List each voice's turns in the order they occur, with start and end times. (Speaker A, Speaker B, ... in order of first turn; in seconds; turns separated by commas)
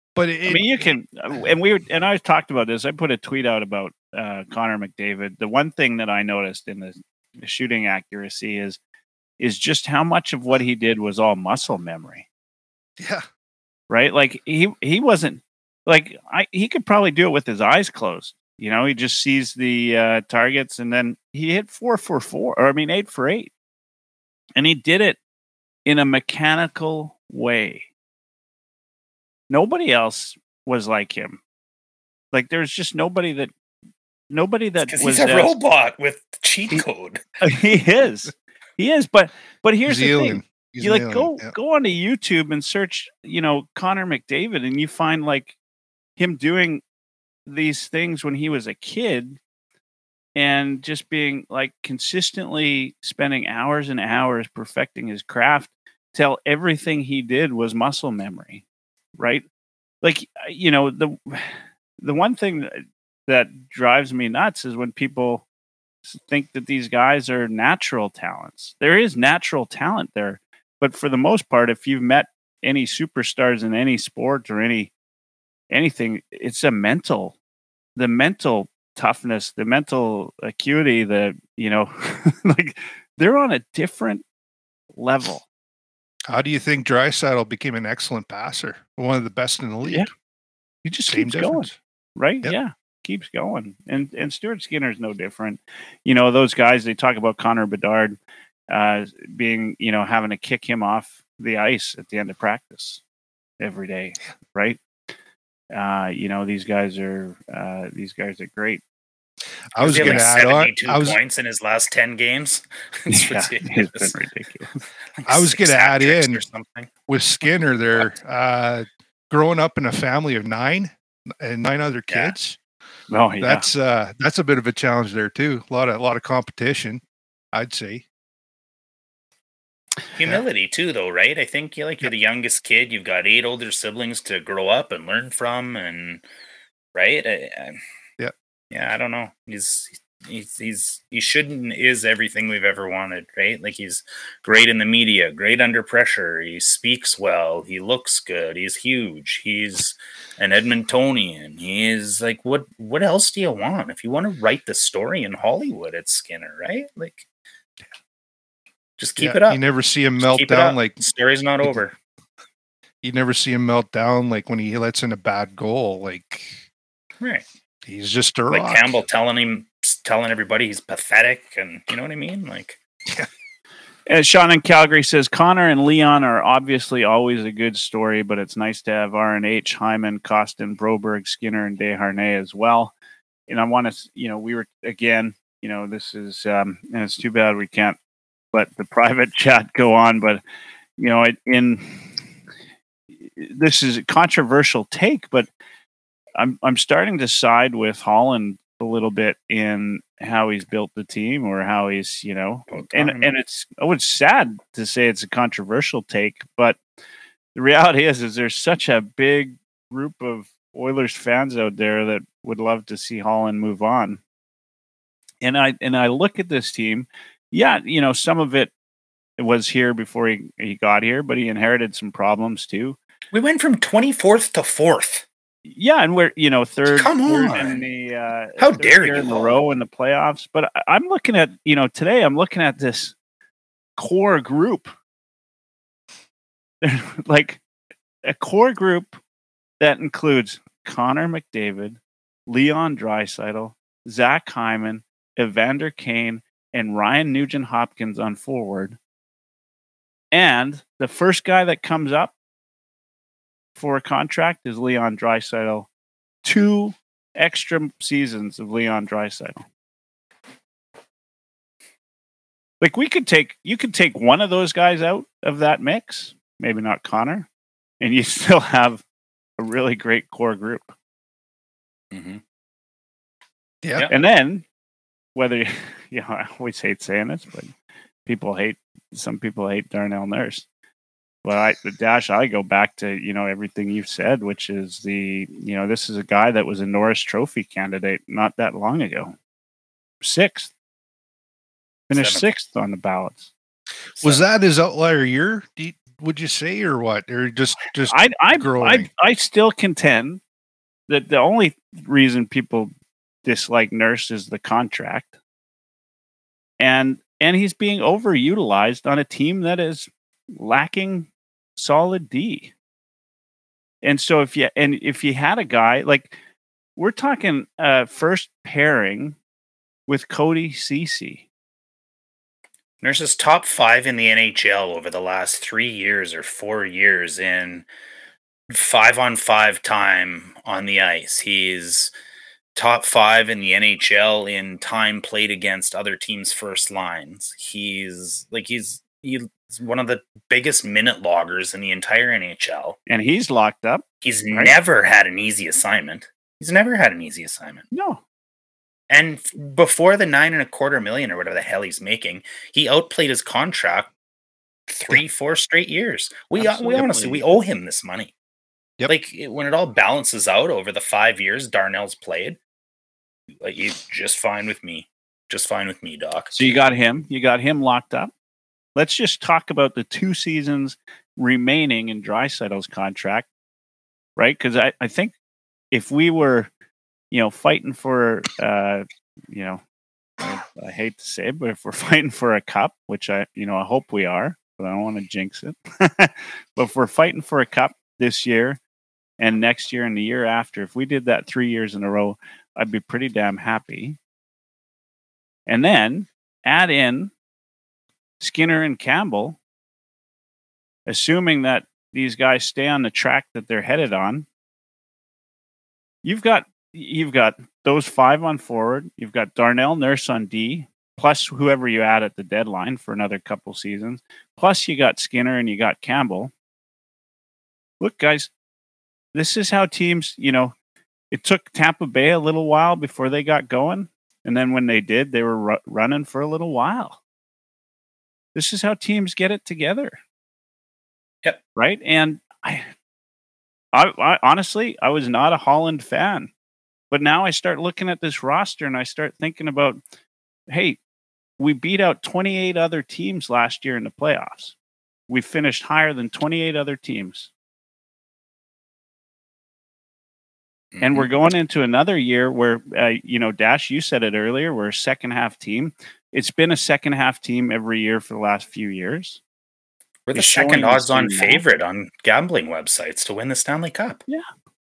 Speaker A: 0.2-0.8, Speaker B: 0.5-8.8, Speaker B: 9.4-12.3, Speaker A: 13.0-13.3, Speaker B: 13.9-23.5, Speaker B: 24.6-25.2, Speaker B: 25.9-27.9, Speaker B: 29.5-31.4, Speaker B: 32.3-33.5, Speaker B: 34.3-35.5, Speaker C: 34.9-37.2, Speaker B: 37.4-45.6, Speaker A: 39.9-41.5, Speaker B: 46.2-46.8, Speaker B: 47.5-49.4, Speaker B: 50.4-58.6, Speaker B: 59.2-59.4, Speaker B: 60.0-65.5, Speaker B: 66.0-74.9, Speaker B: 75.7-77.4, Speaker B: 78.0-84.2, Speaker B: 84.9-85.5, Speaker A: 86.3-90.1, Speaker B: 90.8-98.2, Speaker A: 91.1-91.8, Speaker B: 98.7-103.0, Speaker B: 103.6-104.8, Speaker B: 105.7-108.8, Speaker A: 109.7-111.2, Speaker C: 109.8-114.1, Speaker B: 113.1-114.8, Speaker C: 115.2-116.9, Speaker A: 115.3-116.4, Speaker A: 117.1-122.6, Speaker C: 122.1-122.3, Speaker B: 123.1-123.7, Speaker A: 123.4-127.0, Speaker A: 127.5-128.1, Speaker C: 130.1-136.2, Speaker C: 136.9-137.8, Speaker C: 138.7-157.2, Speaker C: 159.0-159.6, Speaker A: 159.2-161.0, Speaker C: 160.2-161.9, Speaker A: 163.0-166.6, Speaker C: 167.2-167.4, Speaker A: 167.9-169.0, Speaker C: 168.5-172.8, Speaker B: 174.1-182.9, Speaker B: 183.5-188.0, Speaker B: 188.5-190.4, Speaker B: 191.0-192.2, Speaker B: 193.2-195.5, Speaker B: 196.4-206.8, Speaker C: 202.7-203.3, Speaker B: 207.6-214.2, Speaker B: 215.4-218.7, Speaker B: 219.4-223.0, Speaker C: 223.3-225.2, Speaker B: 225.7-233.2, Speaker C: 226.9-227.8, Speaker C: 228.6-229.5, Speaker B: 234.0-234.9, Speaker B: 236.8-237.6, Speaker B: 238.2-239.2, Speaker B: 239.8-249.0, Speaker B: 250.3-252.3, Speaker B: 253.8-255.9, Speaker B: 256.4-259.6, Speaker B: 262.8-267.5, Speaker B: 268.0-269.0, Speaker B: 269.6-270.9, Speaker C: 272.1-272.4, Speaker A: 273.8-274.1, Speaker C: 273.9-274.2, Speaker B: 274.1-274.6, Speaker B: 275.4-277.7, Speaker B: 278.3-280.6, Speaker B: 281.4-289.4, Speaker B: 290.2-290.7, Speaker B: 292.1-293.5, Speaker C: 292.1-292.4, Speaker A: 294.2-299.1, Speaker B: 298.1-300.4, Speaker B: 301.1-302.9, Speaker B: 303.4-305.3, Speaker B: 306.8-312.7, Speaker B: 314.0-316.4, Speaker B: 317.0-319.4, Speaker B: 320.1-321.5, Speaker C: 323.0-327.9, Speaker C: 328.7-332.1, Speaker C: 332.8-343.0, Speaker B: 343.1-344.7, Speaker C: 344.2-347.9, Speaker B: 347.9-348.2, Speaker C: 349.1-354.1, Speaker C: 354.9-358.3, Speaker B: 356.6-357.4, Speaker C: 359.1-362.6, Speaker C: 363.6-366.6, Speaker B: 366.6-368.3, Speaker B: 369.0-373.5, Speaker B: 374.4-375.3, Speaker B: 375.9-376.7, Speaker B: 377.3-379.8, Speaker B: 380.4-388.8, Speaker B: 389.4-394.2, Speaker B: 395.7-397.3, Speaker B: 398.4-399.6, Speaker B: 401.1-404.5, Speaker B: 406.2-416.5, Speaker B: 418.0-418.5, Speaker B: 419.3-420.8, Speaker B: 421.3-427.2, Speaker B: 428.5-430.2, Speaker B: 431.8-432.9, Speaker B: 433.9-436.5, Speaker B: 437.1-440.0, Speaker B: 440.7-441.0, Speaker B: 441.6-444.8, Speaker B: 445.3-447.5, Speaker C: 450.9-451.3, Speaker B: 451.0-459.4, Speaker C: 460.3-464.2, Speaker B: 460.3-461.6